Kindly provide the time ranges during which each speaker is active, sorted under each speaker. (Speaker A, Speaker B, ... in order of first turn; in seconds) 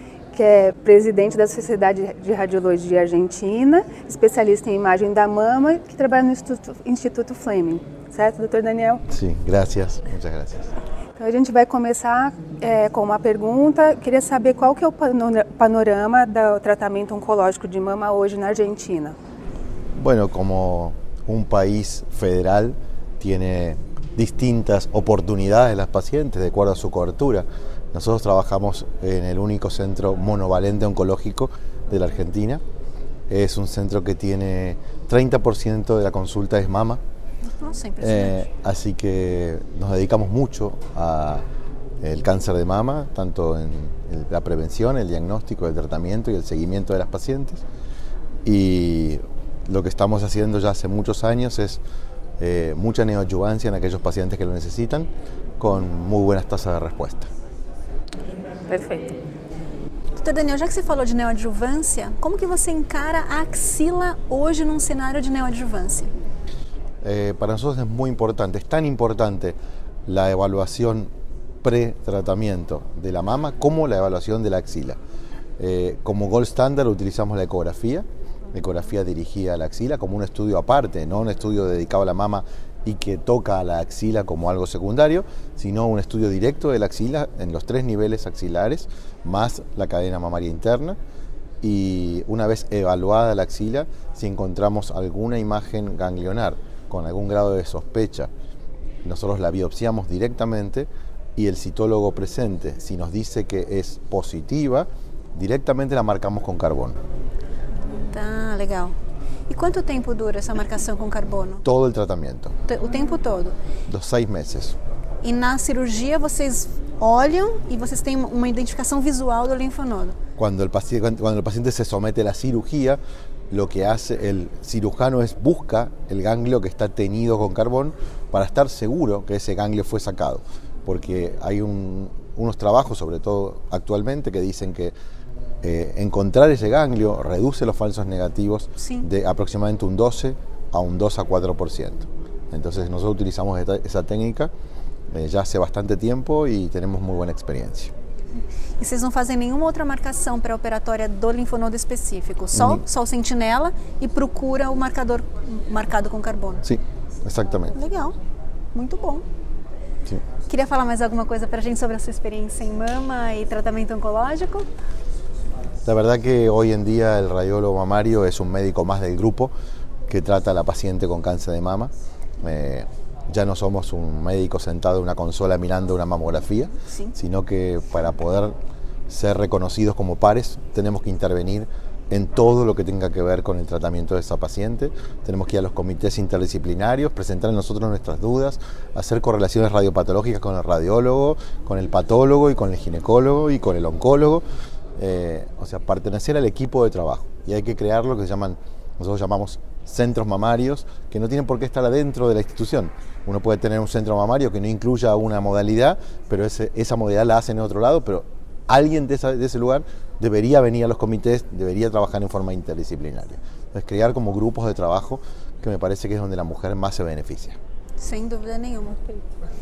Speaker A: 0.3-9.0, 11.2-19.2, 58.7-59.2
Speaker B: 9.1-10.7, 19.9-32.6, 33.3-37.0, 38.0-41.4, 42.0-47.6, 48.4-51.8, 52.4-57.3, 67.0-71.1, 71.6-75.0, 75.6-91.0, 91.6-98.3, 99.0-107.0, 111.6-112.5, 113.9-114.8, 120.4-134.9, 135.6-144.5, 145.1-147.9, 152.5-152.8, 156.6-157.7, 165.8-169.5, 170.1-178.6, 179.1-194.4, 195.0-217.6
Speaker C: 37.6-38.4, 60.2-66.1, 107.9-108.9, 109.5-111.6, 112.7-113.6, 115.2-120.2, 138.8-139.0, 148.8-156.6, 157.7-158.2, 158.7-159.2, 160.5-164.7, 218.0-219.2